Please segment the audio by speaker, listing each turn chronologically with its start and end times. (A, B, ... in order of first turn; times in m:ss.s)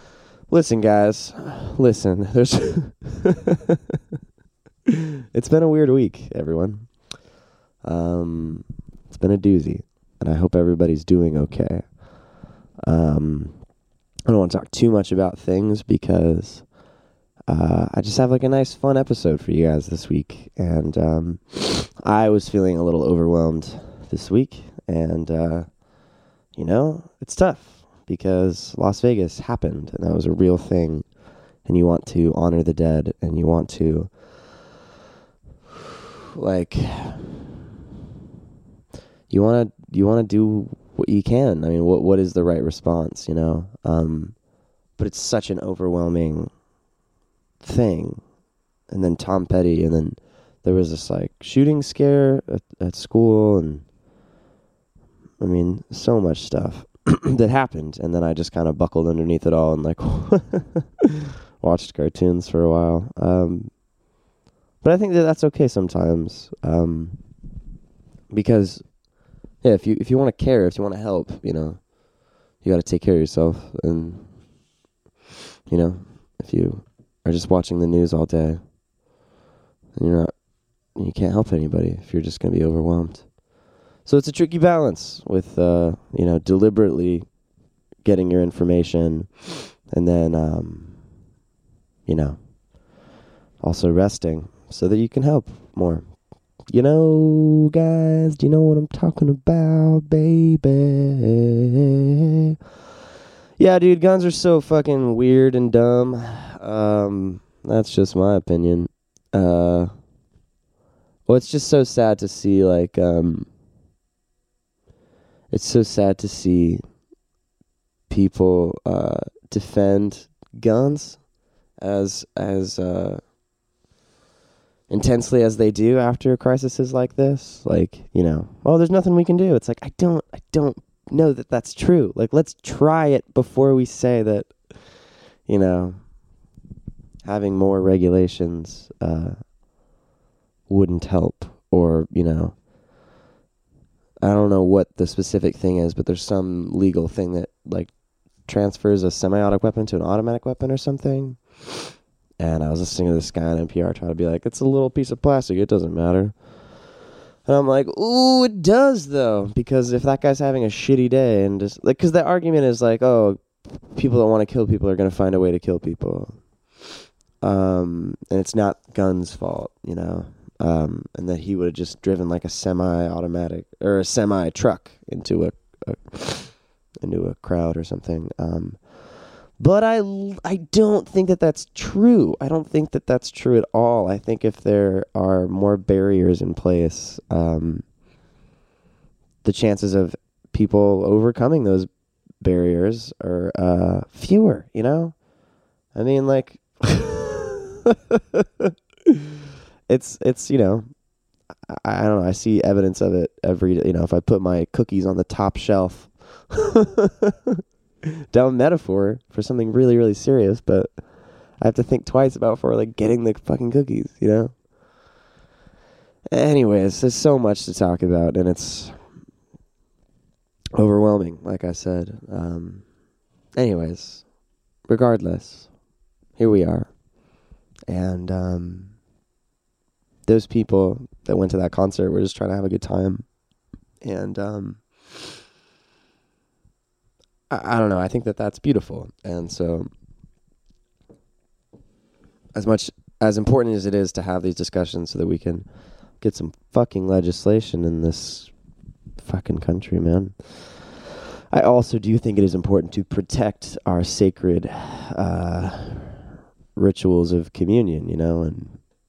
0:00.5-0:03.8 A
0:04.9-0:06.9 A
0:07.8-0:11.9 A
0:12.8-0:13.6 A
0:14.2-0:16.7 A
0:17.5-0:25.7 A
0:26.5-0:31.1 A
0:31.6-0:34.1 A
0:36.4-0:37.4 A
0:39.3-0:44.4 A
0:44.9-0:46.5 A
0:47.6-0:48.2 A
0:48.9-0:53.8 A
0:55.4-1:03.7 A
1:04.8-1:07.2 A
1:08.3-1:08.9 A
1:09.6-1:11.9 A
1:12.6-1:14.3 A
1:15.7-1:18.6 A
1:20.0-1:20.3 A
1:20.9-1:23.3 A
1:24.0-1:27.2 A
1:28.0-1:31.0 A
1:32.0-1:32.4 A
1:33.6-1:36.0 A
1:36.7-1:41.7 A
1:43.6-1:49.9 A
1:51.3-1:53.5 A
1:55.5-1:56.8 A
1:58.1-2:01.2 A
2:01.8-2:03.2 A
2:04.9-2:14.5 A
2:15.4-2:16.0 A
2:17.2-2:19.4 A
2:20.7-2:22.6 A
2:24.2-2:27.9 A
2:28.4-2:36.3 A
2:37.4-2:46.4 A
2:47.4-3:07.8 A
3:09.4-3:11.9 A
3:12.4-3:15.1 A
3:15.9-3:19.2 A
3:19.9-3:20.9 A
3:21.7-3:27.6 A
3:28.3-3:30.9 A
3:31.6-3:34.6 A
3:36.3-3:39.0 A
3:40.8-3:42.8 A
3:43.5-3:44.2 A
3:44.9-3:45.7 A
3:46.4-3:46.9 A
3:47.9-3:48.9 A
3:50.2-3:53.2 A
3:54.0-3:55.2 A
3:57.5-3:59.9 A
4:02.5-4:05.6 A
4:06.2-4:08.5 A
4:09.2-4:10.8 A
4:11.5-4:16.2 A
4:16.7-4:18.8 A